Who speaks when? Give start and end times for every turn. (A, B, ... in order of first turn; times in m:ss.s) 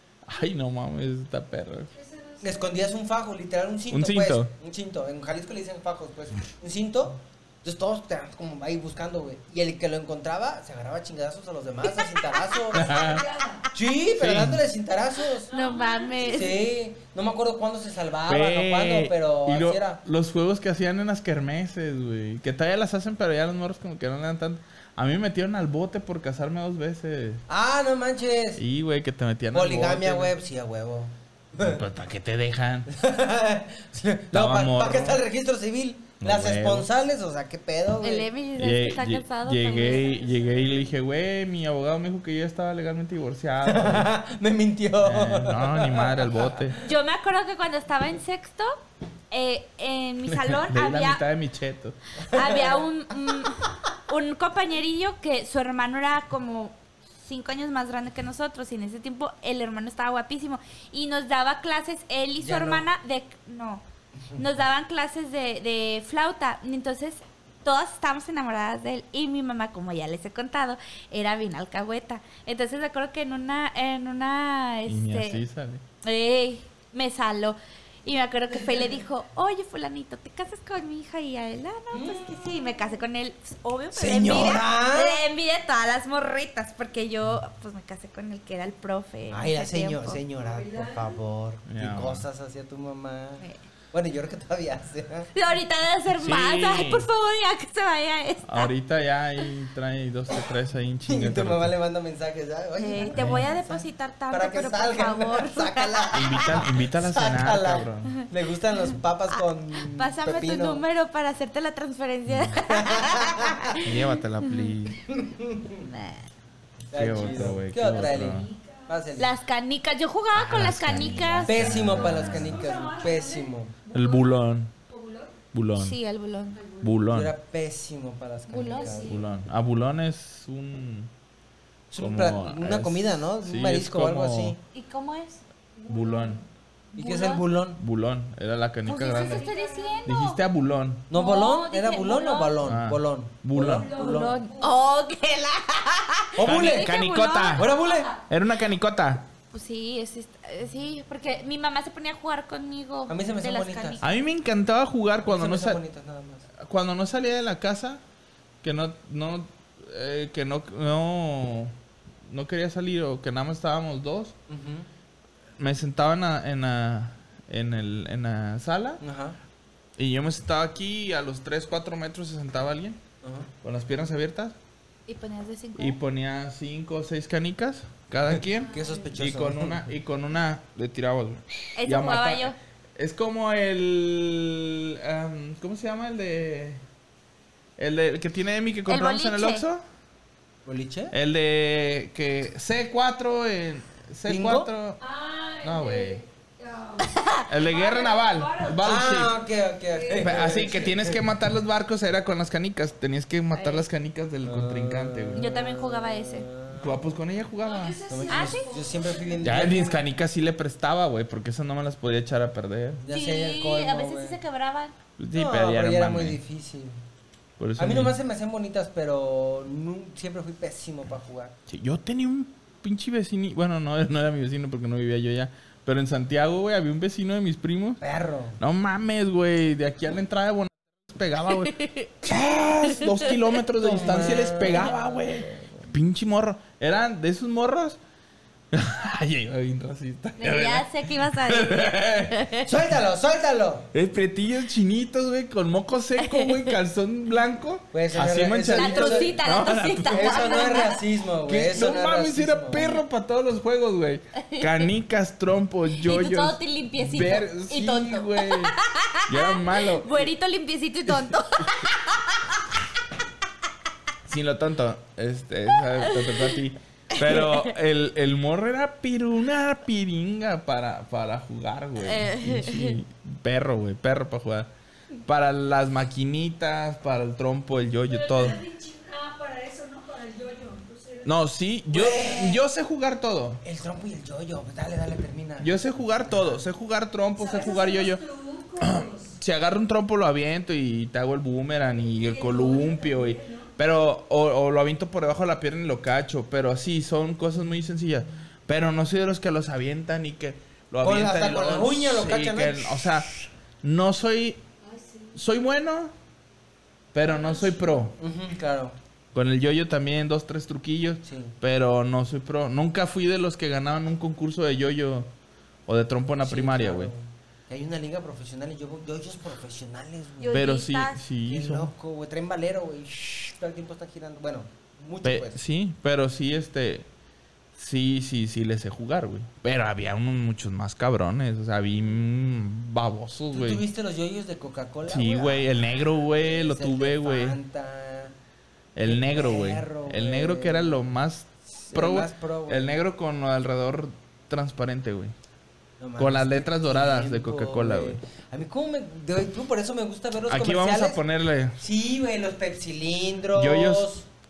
0:00.2-0:01.9 A
0:01.9-0:02.7 B
0:02.4-0:13.1 C
0:03.9-0:04.5 A
0:12.7-0:13.3 A
0:12.8-0:13.6 B
0:13.7-0:15.5 C
0:14.1-0:14.6 A
0:15.5-0:16.4 B
0:15.5-0:16.6 D
0:16.2-0:20.0 C
0:18.2-0:27.4 A
0:27.5-0:28.6 C
0:28.6-0:30.3 A
0:29.5-0:31.8 C
0:31.6-0:32.9 A
0:32.9-0:38.3 C
0:34.3-0:35.2 A
0:36.2-0:36.9 A
0:38.0-0:40.3 D
0:38.6-0:44.1 A
0:43.6-0:46.7 C
0:45.0-0:46.8 A
0:46.8-0:48.8 D
0:49.3-0:51.2 D
0:50.3-0:52.0 A
0:52.3-0:52.8 C
0:52.3-1:03.8 D
1:02.4-1:02.8 C
1:04.4-1:15.4 D
1:14.9-1:15.8 A
1:16.0-1:30.2 D
1:21.9-1:22.4 C
1:23.9-1:25.2 C
1:29.3-1:35.3 C
1:30.4-1:31.2 B
1:31.7-1:32.2 A
1:35.3-1:38.7 D
1:36.2-1:37.0 A
1:38.4-1:41.7 A
1:41.0-1:50.8 C
1:42.8-1:46.6 D
1:43.1-1:43.4 A
1:46.1-1:48.1 A
1:49.3-1:54.5 D
1:52.3-1:52.6 A
1:52.6-1:53.7 C
1:53.8-1:55.0 A
1:55.1-1:55.8 C
1:55.8-1:56.3 D
1:56.9-1:59.3 C
1:56.9-1:58.5 A
1:57.2-1:59.0 B
1:59.2-2:01.8 D
2:00.3-2:02.6 A
2:01.4-2:03.7 C
2:01.6-2:04.4 B
2:03.9-2:04.7 A
2:04.9-2:05.3 B
2:05.5-2:06.0 A
2:05.8-2:06.6 D
2:06.6-2:06.9 B
2:06.8-2:07.3 A
2:07.1-2:09.2 C
2:08.5-2:09.0 D
2:08.6-2:09.2 B
2:09.0-2:11.1 A
2:11.9-2:14.6 C
2:12.0-2:14.6 A
2:14.7-2:15.4 D
2:15.8-2:16.4 B
2:15.9-2:16.4 A
2:17.0-2:17.4 D
2:17.0-2:17.8 C
2:17.8-2:19.5 A
2:18.8-2:20.4 D
2:19.0-2:20.1 B
2:20.0-2:21.1 A
2:21.1-2:24.3 C
2:21.1-2:22.6 D
2:22.6-2:23.9 A
2:23.6-2:24.8 B
2:24.1-2:27.7 D
2:26.4-2:26.9 C
2:26.4-2:27.7 A
2:27.5-2:28.1 C
2:27.8-2:28.2 B
2:28.3-2:29.3 A
2:29.5-2:34.2 D
2:33.1-2:34.0 C
2:34.0-2:35.8 A
2:35.2-2:36.4 C
2:36.6-2:38.0 A
2:38.6-2:41.7 A
2:42.2-2:44.3 A
2:44.5-2:44.9 C
2:45.6-2:49.0 A
2:49.0-2:49.4 C
2:50.0-2:53.0 A
2:53.2-2:53.5 C
2:53.6-2:54.6 A
2:55.1-2:56.0 D
2:55.8-3:06.8 A
2:58.3-2:59.8 C
2:58.6-2:59.0 B
3:01.8-3:02.6 D
3:07.8-3:09.8 A
3:08.9-3:09.6 D
3:10.6-3:11.1 C
3:11.1-3:15.0 A
3:14.3-3:14.7 C
3:15.0-3:19.3 B
3:15.6-3:16.2 A
3:17.0-3:17.5 D
3:17.5-3:19.4 A
3:18.8-3:21.2 C
3:19.9-3:20.7 B
3:20.2-3:25.5 A
3:23.5-3:23.8 D
3:24.4-3:27.0 C
3:25.3-3:26.5 D
3:26.7-3:28.0 A
3:27.6-3:29.9 B
3:28.1-3:30.0 C
3:28.3-3:28.7 D
3:29.4-3:33.0 A
3:33.0-3:34.4 C
3:33.1-3:34.9 D
3:35.2-3:36.4 A
3:35.3-3:37.0 C
3:37.6-3:38.2 A
3:37.8-3:41.5 C
3:41.7-3:48.0 A
3:48.0-3:48.6 C
3:48.6-3:58.0 A
3:51.6-3:52.1 D
3:53.0-3:53.3 D
3:53.8-3:55.8 C
3:58.7-4:02.5 A
4:00.4-4:02.7 D
4:02.6-4:03.9 C
4:03.9-4:10.8 A
4:06.2-4:06.7 D
4:07.9-4:09.3 C
4:08.6-4:11.0 D
4:10.1-4:12.8 C
4:11.4-4:18.7 A
4:14.4-4:14.8 D
4:16.0-4:22.6 D
4:19.3-4:20.3 A
4:24.3-4:34.7 A
4:26.0-4:26.5 D
4:27.2-4:27.7 D
4:32.0-4:33.0 D
4:35.2-4:38.6 A
4:38.1-4:41.4 B
4:41.2-4:43.6 A
4:41.9-4:42.6 C
4:43.6-4:46.6 C
4:45.6-4:48.2 A
4:47.4-4:49.4 B
4:48.8-5:03.3 A
4:52.2-4:53.7 B
5:01.0-5:03.0 C
5:03.8-5:04.6 A
5:04.8-5:05.4 B
5:05.3-5:06.1 A
5:07.1-5:08.1 A
5:07.2-5:08.1 B
5:08.2-5:09.0 C
5:09.3-5:15.3 A
5:11.2-5:11.5 C
5:15.9-5:17.1 A
5:16.4-5:20.6 C
5:20.4-5:21.2 D
5:20.5-5:21.9 A
5:21.4-5:25.6 C
5:25.2-5:27.1 A
5:27.7-5:33.8 A
5:33.5-5:38.3 C
5:35.1-5:37.6 A
5:38.9-5:45.3 A
5:39.0-5:41.0 C
5:41.7-5:42.9 C
5:46.0-5:51.2 C
5:46.2-5:48.2 A
5:50.5-5:51.8 A
5:51.8-5:54.3 C
5:53.5-5:54.1 A